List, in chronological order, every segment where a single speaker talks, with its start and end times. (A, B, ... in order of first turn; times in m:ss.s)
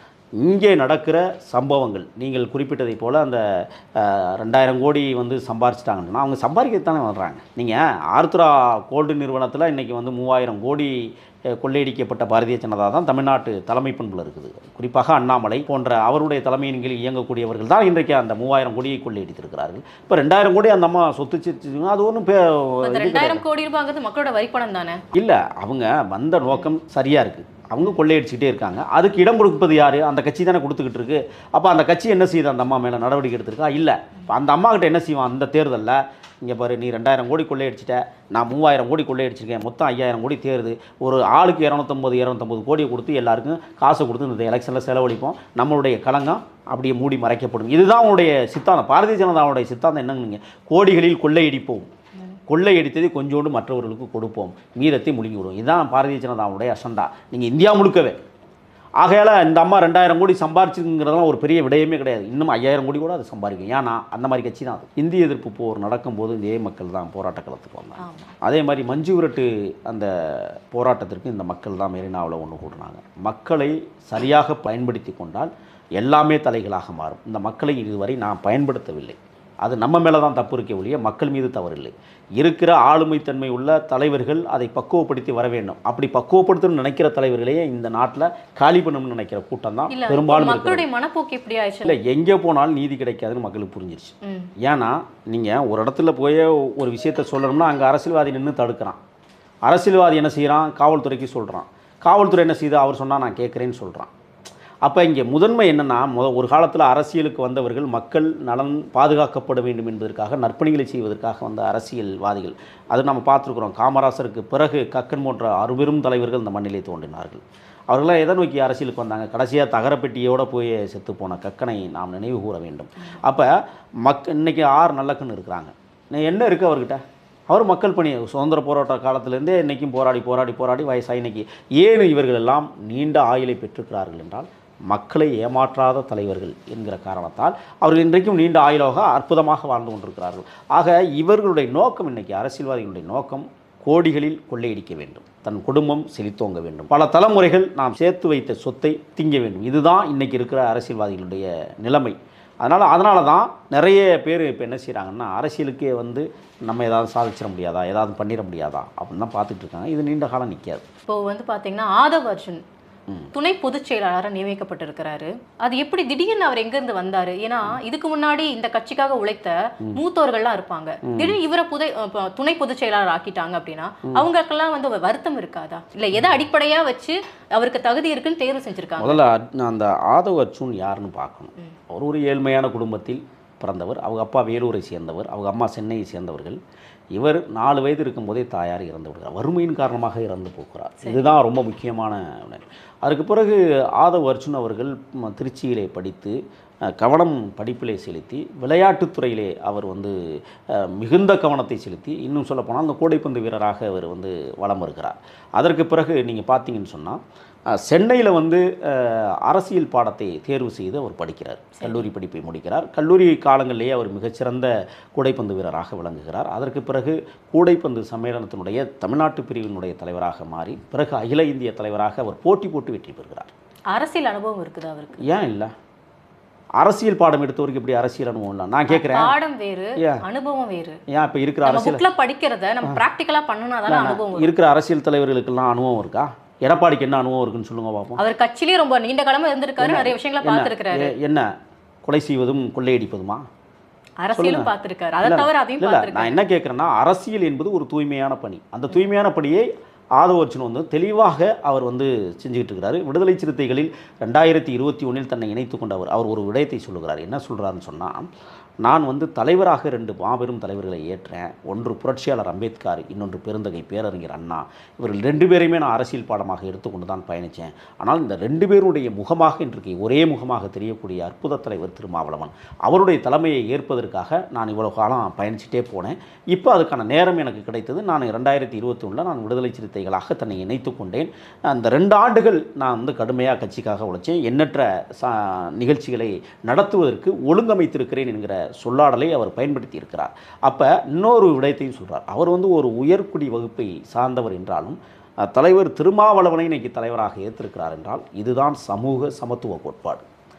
0:00.4-0:23.4 A
0:22.8-0:25.0 B
0:25.1-0:51.9 A
0:52.5-0:58.2 A
0:59.0-1:30.9 A
1:08.0-1:08.4 B
1:29.9-1:32.0 B
1:31.8-1:39.0 A
1:34.2-1:34.5 B
1:39.7-1:44.1 A
1:44.8-2:40.8 A
2:41.1-2:42.6 B
2:43.3-2:59.2 B
2:51.1-2:51.4 A
2:59.0-3:06.6 A
3:07.2-3:16.4 A
3:16.9-3:27.2 A
3:27.7-3:43.5 A
3:43.9-3:45.2 B
3:45.2-3:45.7 A
3:46.8-3:49.3 A
3:48.9-3:51.0 B
3:50.0-3:50.2 A
3:51.1-3:52.0 A
3:51.6-3:54.5 B
3:53.9-3:58.2 A
3:58.2-4:01.1 B
3:59.8-4:01.5 A
4:02.0-4:03.4 A
4:04.2-4:06.4 B
4:04.4-4:04.7 A
4:05.2-4:18.3 A
4:18.8-5:00.3 A